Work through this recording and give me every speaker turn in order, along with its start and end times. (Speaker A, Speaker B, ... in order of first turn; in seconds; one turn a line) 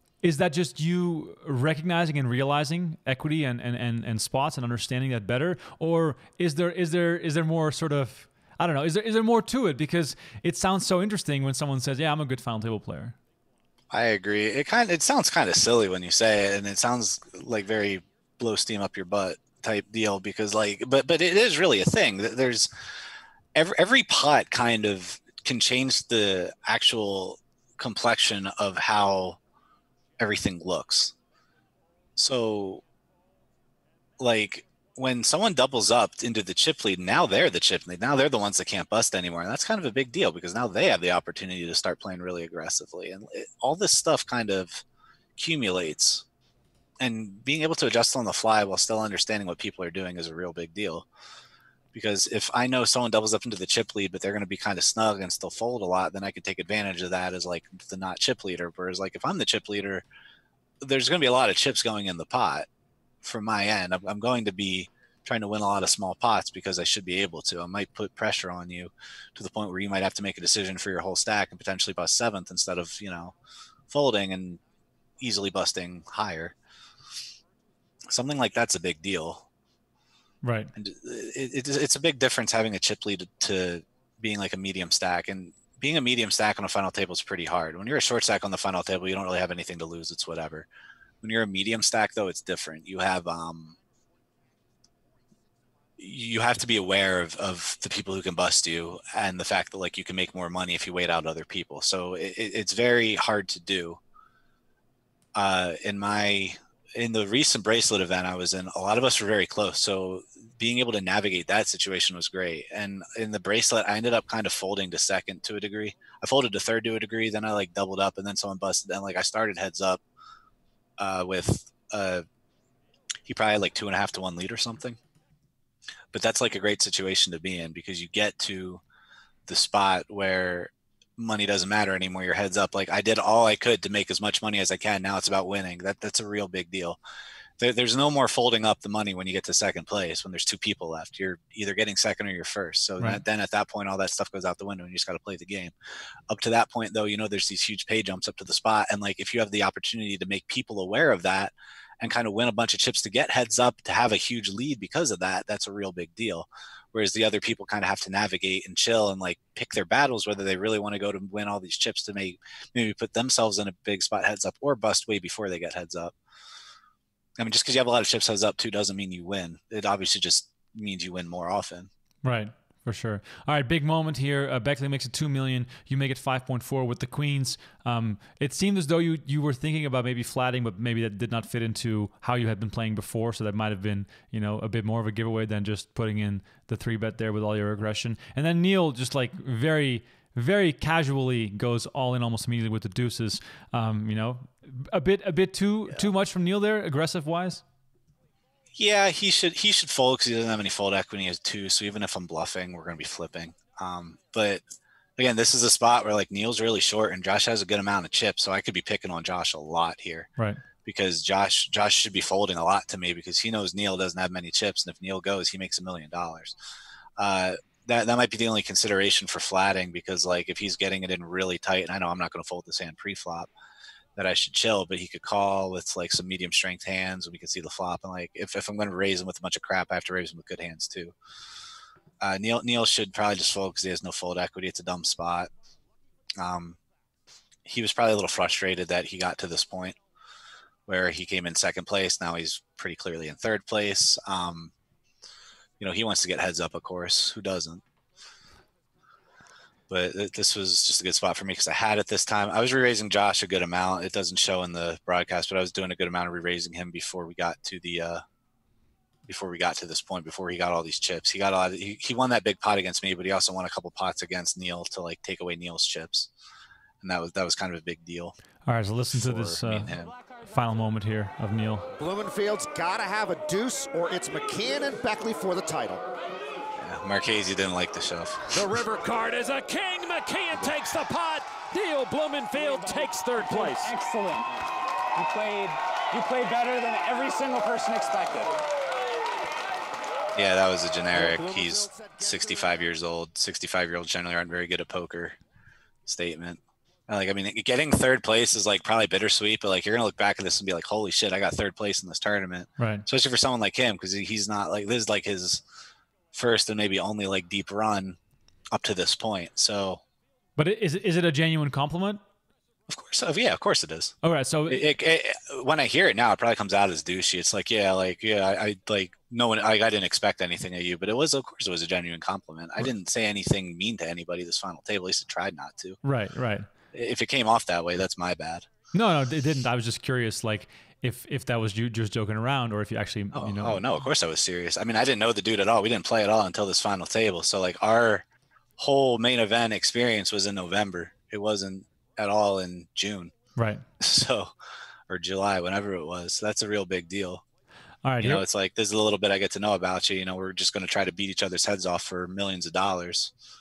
Speaker A: 0.2-13.2
Speaker B: 13.9-22.7
Speaker B: 23.5-29.4
Speaker B: 30.2-31.1
Speaker B: 32.2-32.8
Speaker B: 34.2-44.8
Speaker B: 45.4-46.2
Speaker B: 47.0-51.0
Speaker B: 51.9-60.0
Speaker B: 60.8-62.7
Speaker B: 63.2-73.3
Speaker B: 73.9-74.6
Speaker B: 75.2-76.5
Speaker B: 78.1-79.5
Speaker A: 80.4-80.7
Speaker B: 80.8-90.7
Speaker B: 91.2-93.8
Speaker B: 96.0-104.0
Speaker B: 105.3-120.0
Speaker B: 121.0-122.2
Speaker B: 123.3-125.0
Speaker B: 126.1-128.8
Speaker B: 129.5-137.0
Speaker B: 137.6-145.7
Speaker B: 146.3-166.1
Speaker B: 167.4-171.9
Speaker A: 172.2-197.6
Speaker B: 198.8-204.6
Speaker B: 205.2-210.3
Speaker B: 210.8-216.5
Speaker B: 217.2-223.5
Speaker B: 224.2-231.1
Speaker B: 232.2-235.5
Speaker B: 236.4-236.8
Speaker B: 237.6-239.9
Speaker B: 240.9-244.7
Speaker B: 245.8-247.8
Speaker B: 249.9-258.2
Speaker B: 259.3-266.3
Speaker B: 267.0-268.4
Speaker A: 268.6-271.9
Speaker B: 269.1-270.1
Speaker C: 272.0-276.0
Speaker B: 276.8-278.6
Speaker C: 278.5-279.0
Speaker D: 278.9-283.9
Speaker E: 282.6-284.5
Speaker E: 285.1-288.6
Speaker B: 290.3-295.4
Speaker C: 291.1-292.7
Speaker B: 296.1-305.6
Speaker A: 302.8-303.0
Speaker B: 306.3-308.2
Speaker B: 308.7-310.0
Speaker A: 310.6-312.2
Speaker B: 312.9-314.1
Speaker A: 314.2-314.9
Speaker B: 314.7-326.0
Speaker A: 326.0-326.7
Speaker B: 326.9-328.6
Speaker A: 328.9-333.8
Speaker B: 333.3-338.2
Speaker B: 338.8-343.3
Speaker A: 343.6-343.8
Speaker B: 344.0-344.5
Speaker B: 345.1-347.4
Speaker A: 348.0-348.4
Speaker B: 348.2-353.3